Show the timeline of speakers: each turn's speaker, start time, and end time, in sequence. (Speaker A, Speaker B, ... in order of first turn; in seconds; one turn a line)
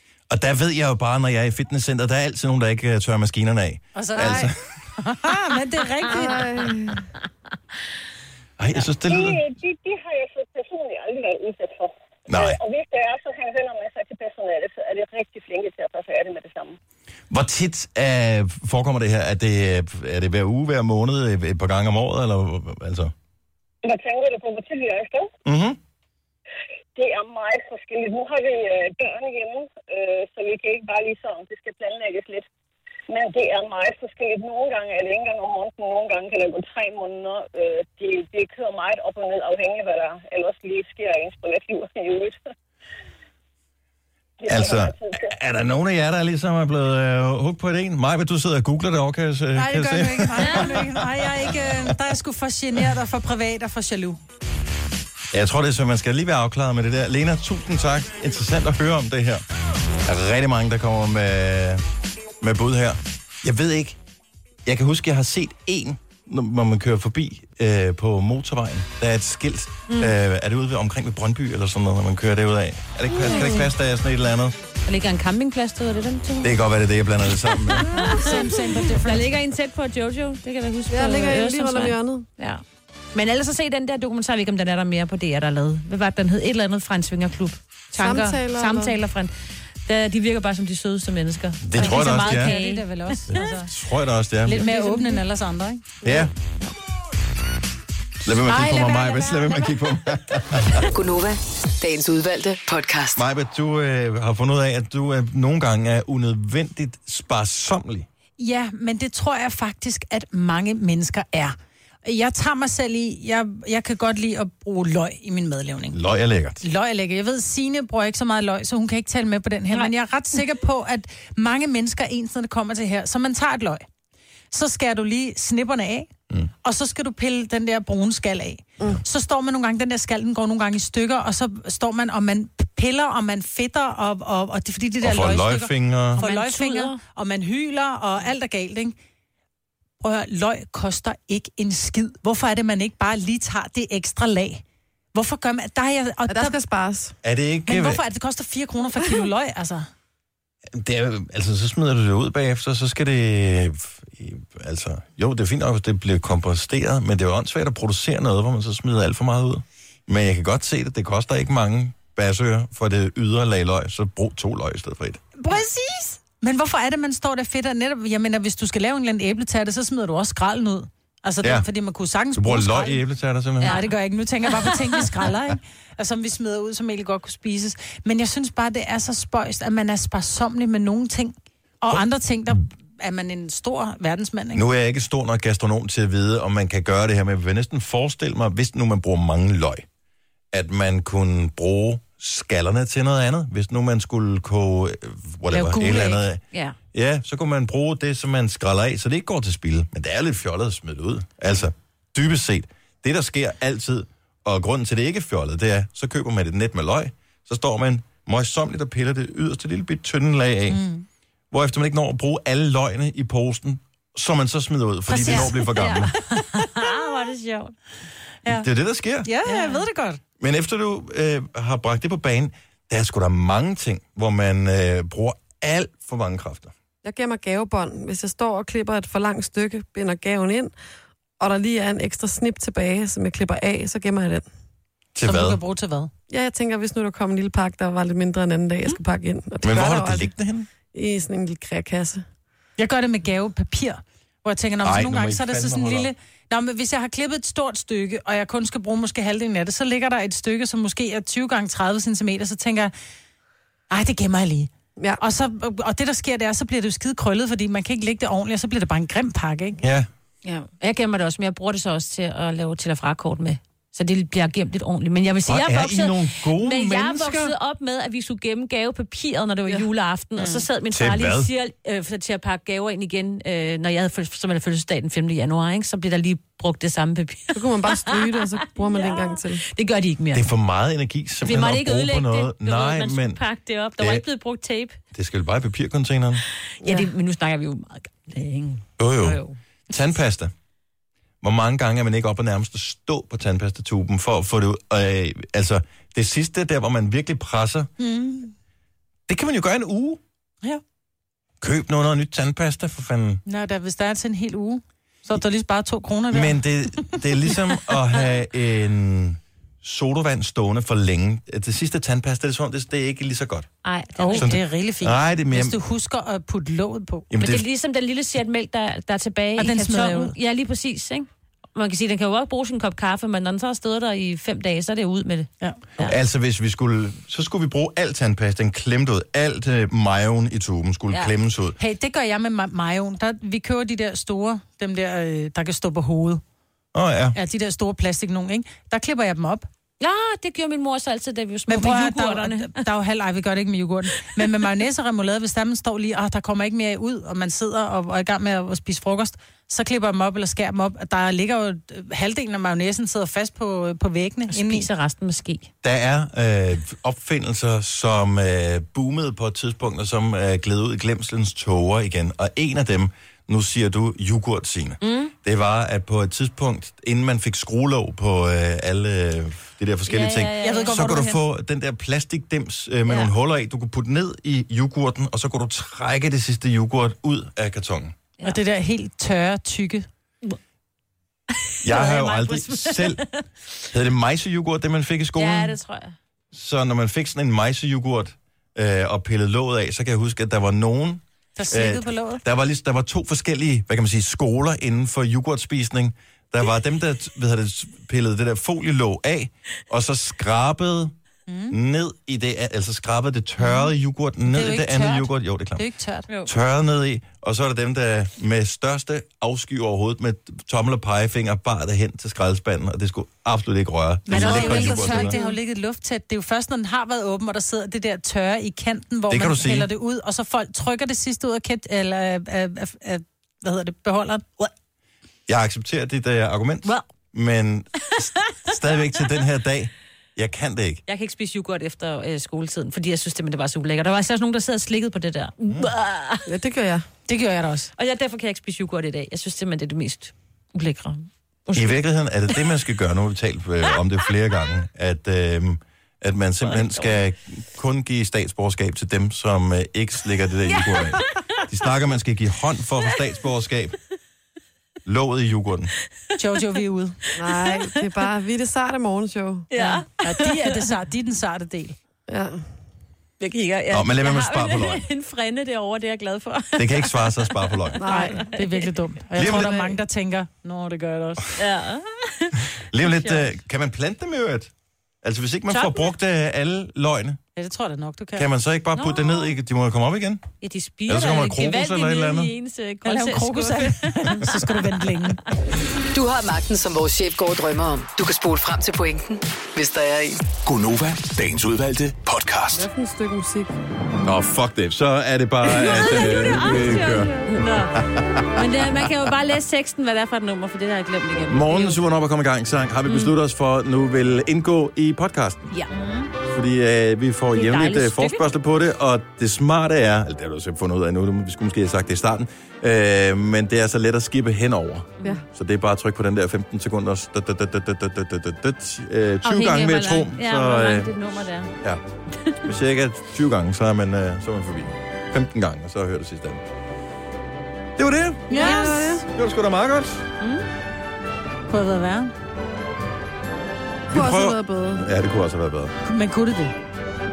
Speaker A: 0.3-4.6
Speaker B: 3.9-6.5
Speaker C: 6.1-7.1
Speaker A: 8.6-9.4
Speaker D: 9.1-16.8
Speaker A: 12.3-12.6
Speaker A: 17.3-23.1
Speaker D: 23.8-25.3
Speaker A: 25.4-25.8
Speaker D: 26.9-32.5
Speaker D: 33.1-42.4
Speaker D: 44.4-45.3
Speaker A: 44.5-51.9
Speaker B: 49.5-54.2
Speaker E: 50.4-50.7
Speaker A: 55.3-59.4
Speaker A: 60.0-61.8
Speaker A: 62.4-64.0
Speaker A: 64.7-74.5
Speaker C: 73.2-73.7
Speaker E: 74.8-76.6
Speaker A: 76.4-78.0
Speaker E: 77.8-78.3
Speaker B: 77.9-79.3
Speaker E: 78.9-82.6
Speaker C: 80.9-82.2
Speaker E: 83.1-89.3
Speaker C: 88.0-88.9
Speaker E: 89.8-93.4
Speaker A: 91.6-92.5
Speaker B: 91.8-93.7
Speaker A: 93.3-94.7
Speaker B: 94.4-95.8
Speaker E: 94.5-95.2
Speaker C: 96.0-96.3
Speaker A: 96.0-96.3
Speaker A: 98.2-100.8
Speaker E: 98.6-99.7
Speaker F: 100.9-103.2
Speaker A: 103.1-108.1
Speaker B: 108.4-116.0
Speaker A: 115.9-116.6
Speaker B: 116.6-123.8
Speaker B: 124.5-126.1
Speaker B: 126.6-138.9
Speaker A: 135.0-136.2
Speaker E: 136.2-137.0
Speaker B: 140.0-144.6
Speaker B: 145.1-146.6
Speaker C: 146.3-147.2
Speaker A: 147.2-148.0
Speaker B: 147.7-149.9
Speaker A: 150.7-165.2
Speaker B: 165.4-173.0
Speaker A: 172.3-173.8
Speaker E: 173.6-173.9
Speaker B: 173.6-184.6
Speaker A: 184.5-189.8
Speaker A: 190.5-196.4
Speaker B: 195.5-196.2
Speaker A: 196.9-210.8
Speaker B: 210.7-211.1
Speaker A: 211.5-216.1
Speaker B: 215.1-215.5
Speaker E: 215.1-217.7
Speaker B: 216.3-217.3
Speaker A: 218.4-219.3
Speaker B: 219.2-220.2
Speaker E: 219.4-219.8
Speaker A: 220.4-226.7
Speaker C: 227.0-230.7
Speaker C: 231.4-234.4
Speaker A: 235.1-235.6
Speaker B: 235.2-236.1
Speaker C: 236.3-240.3
Speaker A: 239.6-240.7
Speaker C: 240.9-242.2
Speaker B: 242.8-252.9
Speaker A: 244.8-246.1
Speaker B: 253.9-259.8
Speaker A: 259.8-260.1
Speaker E: 260.4-280.5
Speaker A: 265.4-267.5
Speaker A: 270.9-271.5
Speaker C: 277.5-279.6
Speaker A: 280.3-283.4
Speaker E: 281.4-285.0
Speaker A: 284.0-284.2
Speaker A: 285.1-286.4
Speaker C: 286.8-287.1
Speaker E: 286.8-289.6
Speaker A: 289.0-290.5
Speaker A: 291.4-297.9
Speaker B: 298.0-298.5
Speaker A: 299.3-300.2
Speaker A: 301.6-303.4
Speaker B: 303.4-306.6
Speaker A: 306.3-313.7
Speaker E: 313.8-314.5
Speaker B: 314.2-317.3
Speaker A: 314.3-315.8
Speaker A: 317.3-317.6
Speaker E: 317.4-326.2
Speaker B: 319.6-320.3
Speaker A: 326.0-331.8
Speaker B: 331.8-336.4
Speaker A: 336.9-337.4
Speaker B: 337.3-339.7
Speaker E: 340.0-342.8
Speaker B: 341.7-354.9
Speaker E: 354.5-355.7
Speaker A: 355.8-378.1
Speaker E: 365.0-365.3
Speaker E: 370.1-371.2
Speaker B: 370.6-371.4
Speaker E: 373.1-373.3
Speaker B: 378.4-380.1
Speaker E: 381.8-383.4
Speaker A: 381.8-383.2
Speaker A: 383.9-385.8
Speaker E: 385.4-386.1
Speaker A: 386.5-401.1
Speaker B: 391.5-392.4
Speaker B: 401.5-401.8
Speaker A: 401.7-405.8
Speaker B: 404.4-406.2
Speaker A: 406.4-415.3
Speaker B: 414.3-424.7
Speaker E: 414.3-415.5
Speaker A: 419.3-419.9
Speaker A: 425.5-431.0
Speaker E: 428.2-428.7
Speaker E: 431.1-436.5
Speaker C: 436.5-437.1
Speaker B: 437.3-437.9
Speaker E: 437.9-442.7
Speaker A: 441.7-453.9
Speaker E: 446.6-447.2
Speaker E: 450.7-451.6
Speaker A: 455.0-455.9
Speaker B: 456.4-457.2
Speaker C: 457.4-459.7
Speaker E: 457.5-457.8
Speaker E: 459.7-460.8
Speaker B: 459.8-461.9
Speaker C: 462.3-462.6
Speaker E: 463.4-467.9
Speaker A: 463.9-465.0
Speaker A: 466.8-468.0
Speaker C: 468.0-468.4
Speaker B: 468.1-471.4
Speaker A: 469.4-469.9
Speaker E: 471.6-473.5
Speaker A: 472.9-474.7
Speaker A: 475.2-477.4
Speaker E: 475.7-476.1
Speaker B: 477.6-478.5
Speaker A: 478.4-480.5
Speaker E: 478.9-479.5
Speaker E: 480.6-484.9
Speaker A: 481.1-482.5
Speaker B: 483.0-485.4
Speaker F: 486.1-490.4
Speaker G: 490.6-492.9
Speaker C: 492.7-493.8
Speaker A: 494.2-499.1
Speaker E: 495.6-498.0
Speaker E: 498.5-502.0
Speaker A: 501.5-505.7
Speaker E: 503.0-503.3
Speaker E: 505.7-506.3
Speaker A: 506.5-521.1
Speaker E: 507.5-508.4
Speaker E: 519.4-521.7
Speaker A: 522.6-526.7
Speaker A: 528.0-530.2
Speaker B: 528.5-529.2
Speaker C: 528.5-529.2
Speaker E: 530.4-530.6
Speaker B: 531.7-532.3
Speaker A: 534.1-535.9
Speaker C: 534.1-535.0
Speaker B: 536.0-536.7